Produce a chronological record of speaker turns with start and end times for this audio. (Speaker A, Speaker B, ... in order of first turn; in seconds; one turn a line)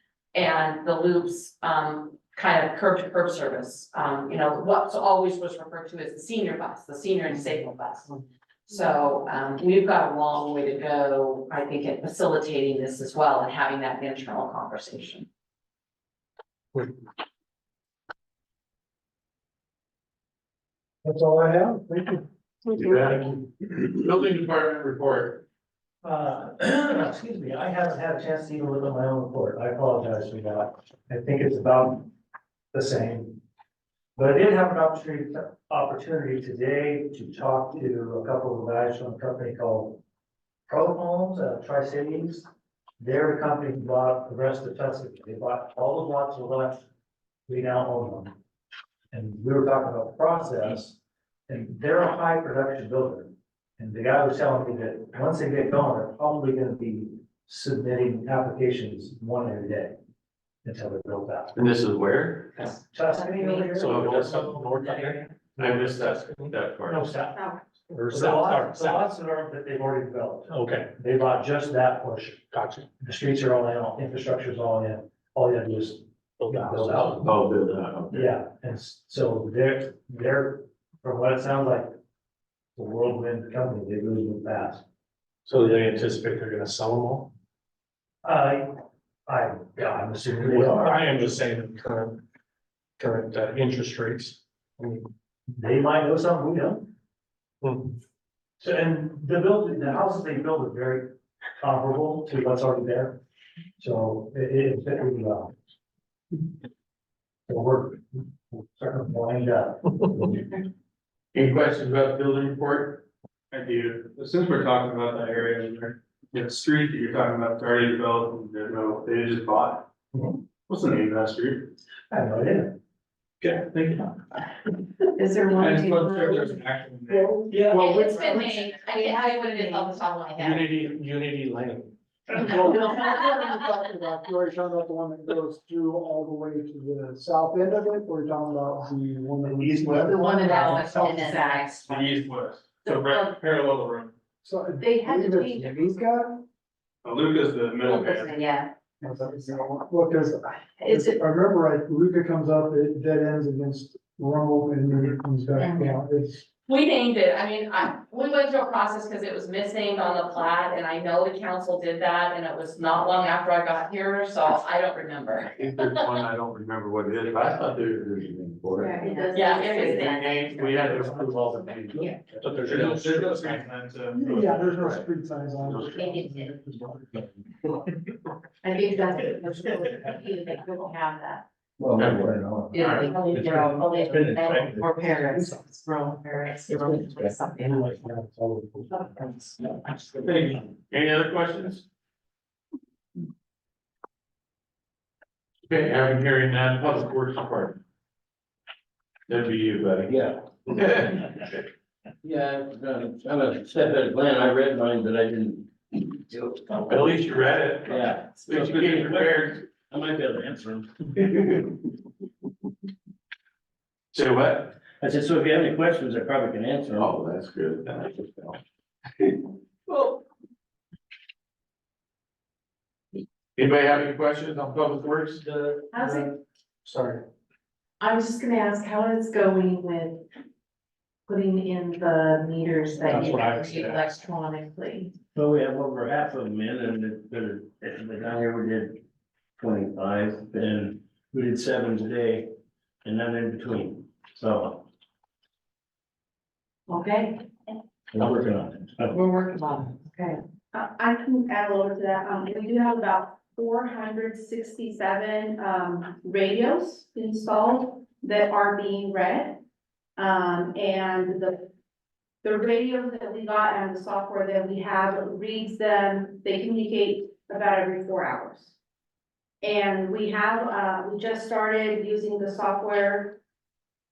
Speaker A: 0.3-8.1
Speaker A: 8.7-15.3
Speaker B: 21.0-22.2
Speaker C: 22.7-25.4
Speaker D: 26.0-32.1
Speaker D: 32.7-33.4
Speaker D: 34.1-40.0
Speaker D: 40.7-42.5
Speaker D: 43.0-46.9
Speaker D: 47.5-48.3
Speaker D: 49.1-60.0
Speaker D: 60.6-61.6
Speaker C: 61.5-62.5
Speaker D: 62.6-66.0
Speaker E: 63.8-66.6
Speaker C: 63.9-64.2
Speaker C: 65.6-67.1
Speaker D: 66.8-67.5
Speaker E: 67.9-69.0
Speaker D: 68.1-72.4
Speaker E: 70.5-70.9
Speaker E: 72.5-72.9
Speaker D: 73.0-77.3
Speaker E: 76.4-77.2
Speaker C: 77.1-78.3
Speaker D: 78.1-81.9
Speaker D: 82.8-84.8
Speaker E: 85.5-87.3
Speaker D: 88.2-88.7
Speaker D: 89.3-91.3
Speaker E: 90.4-92.2
Speaker E: 93.0-95.0
Speaker D: 95.6-96.9
Speaker E: 97.6-97.9
Speaker D: 98.6-103.2
Speaker D: 103.8-105.5
Speaker D: 107.5-110.3
Speaker C: 111.3-113.0
Speaker F: 113.5-119.9
Speaker D: 120.1-120.4
Speaker F: 120.7-121.7
Speaker D: 122.1-122.7
Speaker F: 123.6-124.1
Speaker G: 125.2-126.6
Speaker F: 125.5-127.9
Speaker B: 127.1-128.0
Speaker A: 127.7-130.7
Speaker G: 128.0-130.0
Speaker E: 130.4-131.9
Speaker B: 132.3-140.9
Speaker D: 139.6-140.2
Speaker G: 140.1-142.1
Speaker A: 140.5-141.7
Speaker F: 141.8-144.1
Speaker G: 142.9-143.3
Speaker B: 144.4-146.4
Speaker G: 144.8-145.8
Speaker F: 147.0-148.4
Speaker G: 147.8-148.7
Speaker B: 149.0-156.4
Speaker G: 150.8-151.2
Speaker A: 156.7-166.2
Speaker C: 165.6-169.0
Speaker G: 168.8-170.2
Speaker H: 169.0-169.4
Speaker A: 169.3-171.2
Speaker C: 170.0-172.1
Speaker E: 172.4-173.6
Speaker F: 172.6-174.7
Speaker B: 174.1-177.2
Speaker C: 174.7-175.0
Speaker G: 176.0-176.3
Speaker G: 178.6-181.4
Speaker I: 181.8-184.9
Speaker C: 181.9-183.2
Speaker G: 182.7-188.0
Speaker I: 186.7-187.3
Speaker D: 188.3-188.7
Speaker C: 190.2-191.8
Speaker C: 195.7-197.8
Speaker C: 199.3-201.6
Speaker I: 200.1-200.5
Speaker I: 202.2-207.0
Speaker C: 206.7-209.6
Speaker I: 207.8-211.7
Speaker C: 214.1-214.8
Speaker I: 215.0-217.1
Speaker C: 217.0-218.6
Speaker C: 219.9-220.2
Speaker C: 223.6-225.9
Speaker G: 225.9-226.3
Speaker E: 226.8-227.2
Speaker G: 228.0-230.2
Speaker G: 231.3-235.1
Speaker E: 233.1-234.1
Speaker I: 235.3-239.0
Speaker I: 239.6-244.8
Speaker G: 246.9-247.4
Speaker I: 248.1-249.2
Speaker G: 249.3-250.4
Speaker H: 250.7-259.6
Speaker H: 260.2-261.7
Speaker H: 262.4-268.7
Speaker H: 269.6-273.4